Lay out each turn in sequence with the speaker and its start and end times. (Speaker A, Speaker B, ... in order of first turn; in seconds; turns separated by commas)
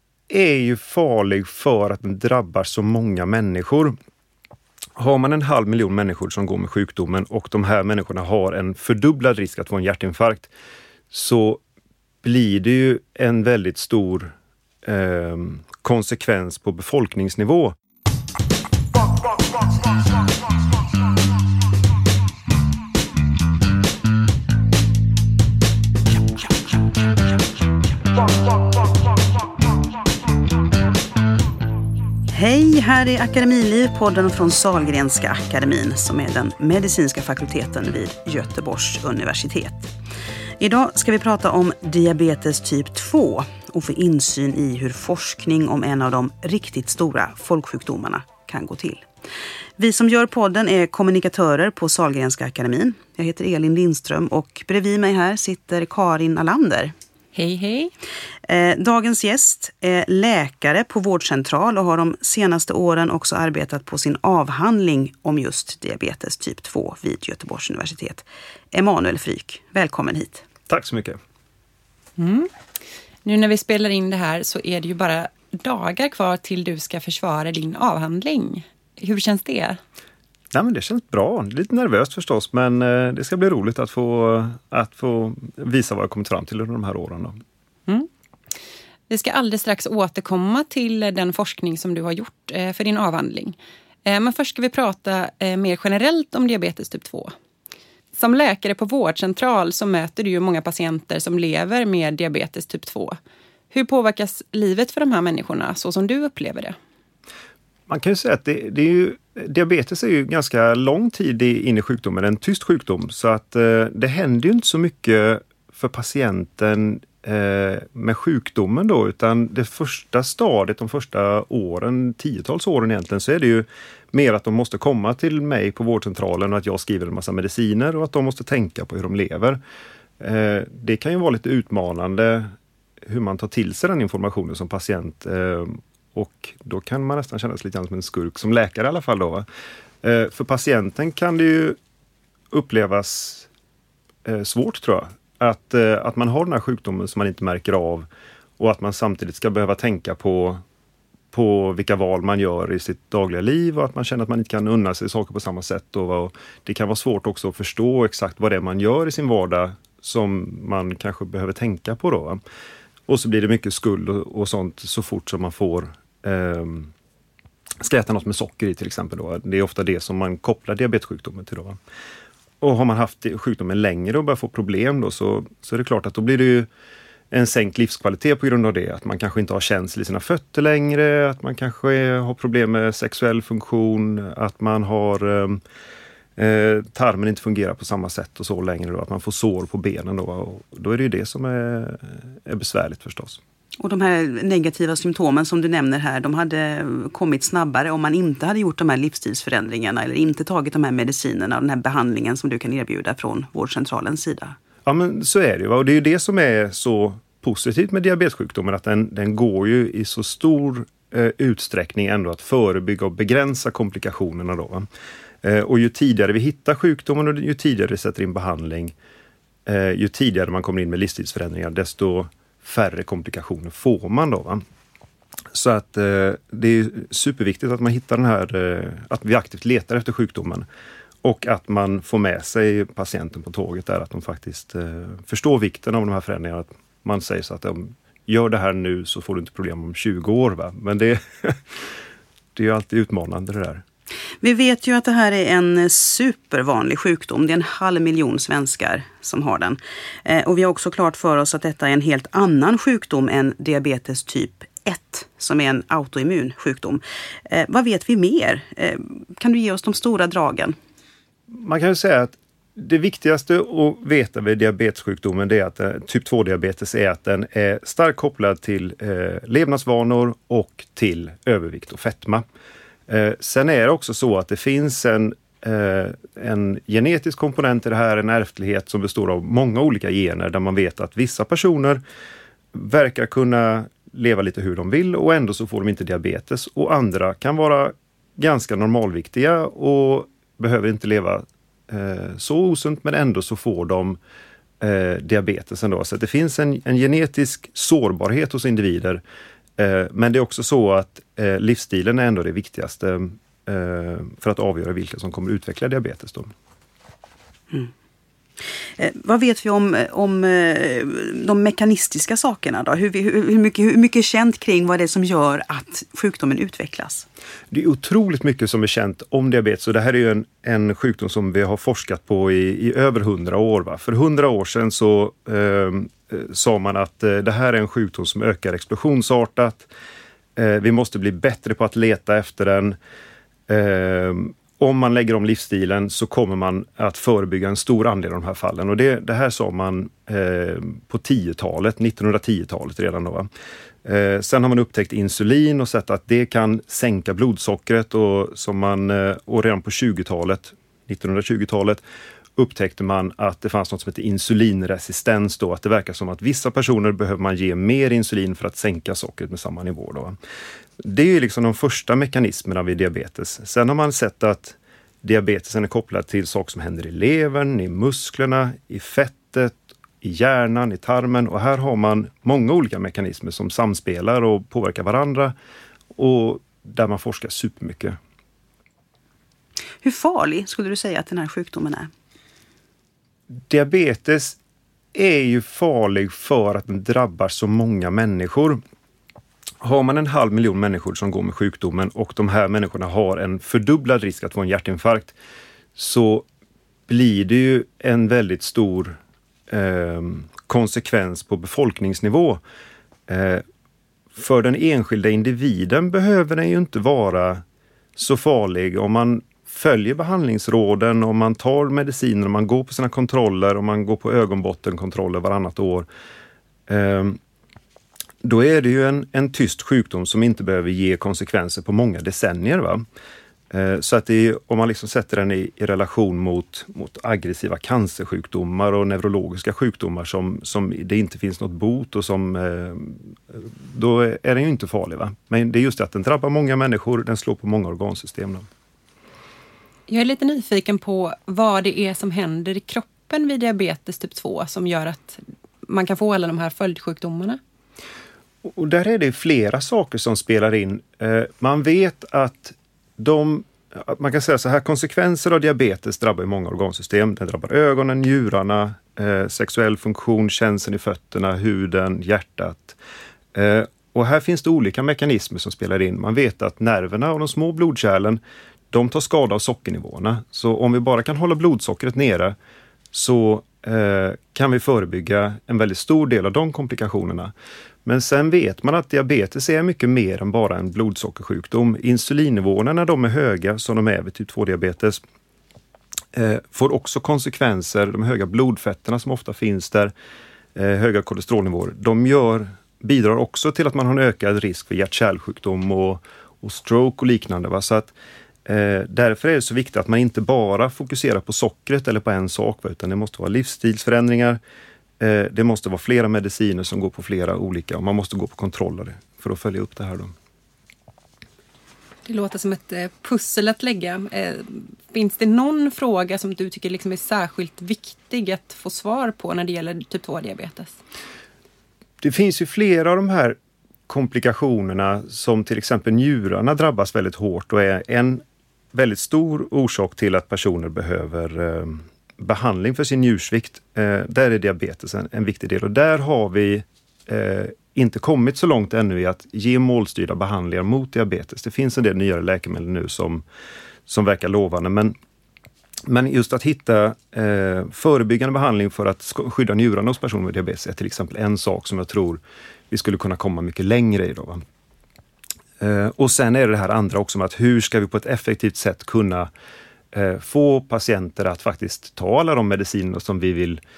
Speaker A: 0.3-4.0, Speaker A: 5.0-10.5, Speaker A: 11.1-11.6, Speaker A: 12.2-17.7, Speaker B: 32.3-39.9, Speaker B: 40.6-49.1, Speaker B: 49.8-56.9, Speaker C: 57.3-57.9, Speaker B: 58.4-70.4, Speaker A: 70.7-71.2, Speaker C: 72.2-72.5, Speaker C: 73.2-79.8, Speaker A: 80.5-87.3, Speaker C: 89.1-97.3, Speaker C: 98.1-103.2, Speaker C: 103.7-106.8, Speaker A: 107.9-129.6, Speaker A: 130.2-132.5, Speaker A: 133.0-139.4, Speaker A: 140.0-141.8, Speaker A: 142.5-143.5, Speaker A: 144.2-148.1, Speaker A: 148.6-150.6, Speaker A: 151.3-162.4, Speaker A: 163.1-166.9, Speaker A: 167.8-171.8, Speaker A: 172.6-176.7, Speaker A: 177.3-185.6, Speaker A: 186.4-193.4, Speaker B: 193.8-204.6, Speaker A: 204.8-214.8, Speaker A: 215.4-218.9, Speaker A: 219.7-224.6, Speaker A: 225.5-230.7, Speaker A: 231.2-241.8, Speaker A: 242.5-243.8, Speaker B: 244.4-260.8, Speaker A: 261.5-272.4, Speaker A: 273.1-282.0, Speaker A: 282.7-294.2, Speaker A: 294.8-299.2, Speaker A: 299.8-306.5, Speaker B: 308.9-317.3, Speaker A: 317.7-329.9, Speaker A: 330.6-333.0, Speaker A: 333.7-343.5, Speaker A: 344.0-352.0, Speaker A: 352.6-360.3, Speaker A: 361.0-375.5, Speaker A: 376.1-378.2, Speaker B: 380.0-382.1, Speaker A: 383.5-384.6, Speaker A: 385.1-388.8, Speaker A: 389.8-395.3, Speaker A: 395.9-396.4, Speaker A: 397.1-399.2, Speaker A: 399.7-402.6, Speaker A: 403.3-403.6, Speaker A: 404.3-407.6, Speaker A: 408.2-416.1, Speaker A: 416.9-417.4, Speaker A: 418.4-423.0, Speaker A: 423.7-438.6, Speaker C: 440.1-447.6, Speaker A: 448.6-463.0, Speaker A: 463.5-468.4, Speaker A: 468.9-472.6, Speaker A: 473.1-477.5, Speaker A: 478.0-485.2, Speaker A: 486.3-490.1, Speaker A: 490.7-498.1, Speaker A: 498.6-504.6, Speaker A: 505.2-510.3, Speaker C: 512.2-521.0, Speaker A: 522.2-528.4, Speaker A: 528.9-543.4, Speaker A: 544.1-545.1, Speaker A: 546.1-554.6, Speaker A: 555.8-559.5, Speaker A: 560.1-563.8